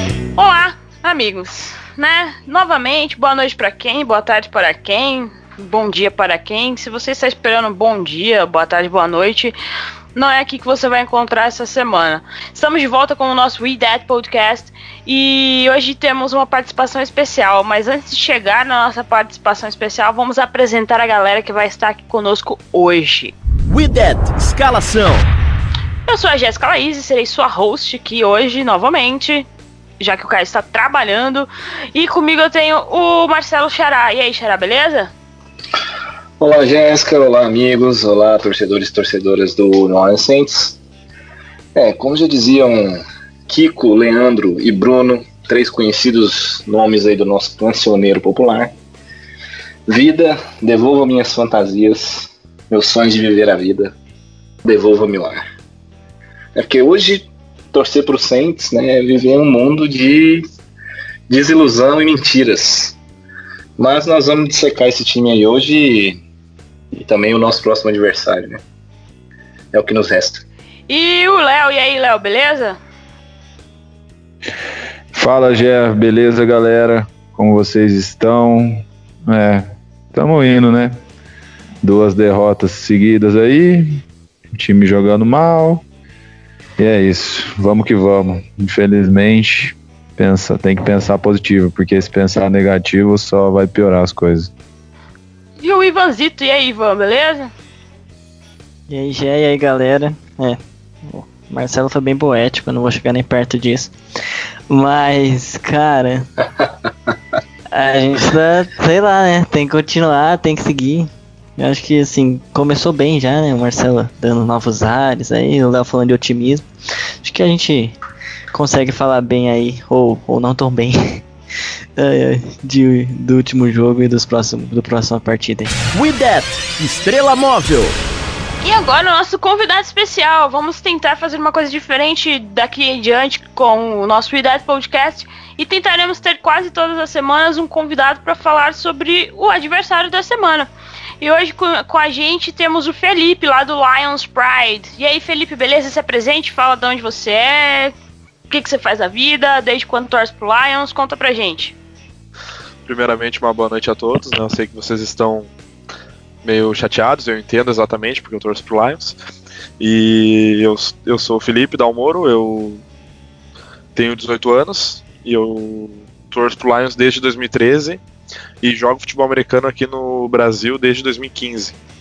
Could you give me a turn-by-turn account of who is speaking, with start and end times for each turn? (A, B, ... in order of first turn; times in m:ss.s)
0:00.4-0:09.5 A
0:10.1-0:23.3 A
0:23.7-0:25.3 B
0:26.1-0:29.5 A
0:30.0-0:35.1 A
0:36.4-0:40.8 C
0:41.7-0:48.7 C
0:49.9-0:53.9 C
0:54.6-0:55.4 C
0:56.5-1:00.4 C
1:01.3-1:03.0 C
1:03.8-1:06.2 C
1:06.9-1:08.6 C
1:09.7-1:10.4 C
1:10.9-1:12.8 A
1:15.1-1:21.0 D
1:21.8-1:25.8 D
1:26.8-1:34.5 D
1:35.6-1:37.5 A
1:38.9-1:43.9 E
1:44.7-1:46.3 E
1:47.7-1:56.6 E
1:57.2-1:58.0 E
1:58.5-2:01.2 E
2:02.0-2:05.7 E
2:05.9-2:08.0 B
2:08.6-2:20.7 A
2:21.2-2:27.9 A
2:28.5-2:31.8 A
2:32.8-2:35.5 F
2:36.4-2:39.2 F
2:39.8-2:42.8 F
2:44.0-2:48.0 F
2:48.6-2:51.8 F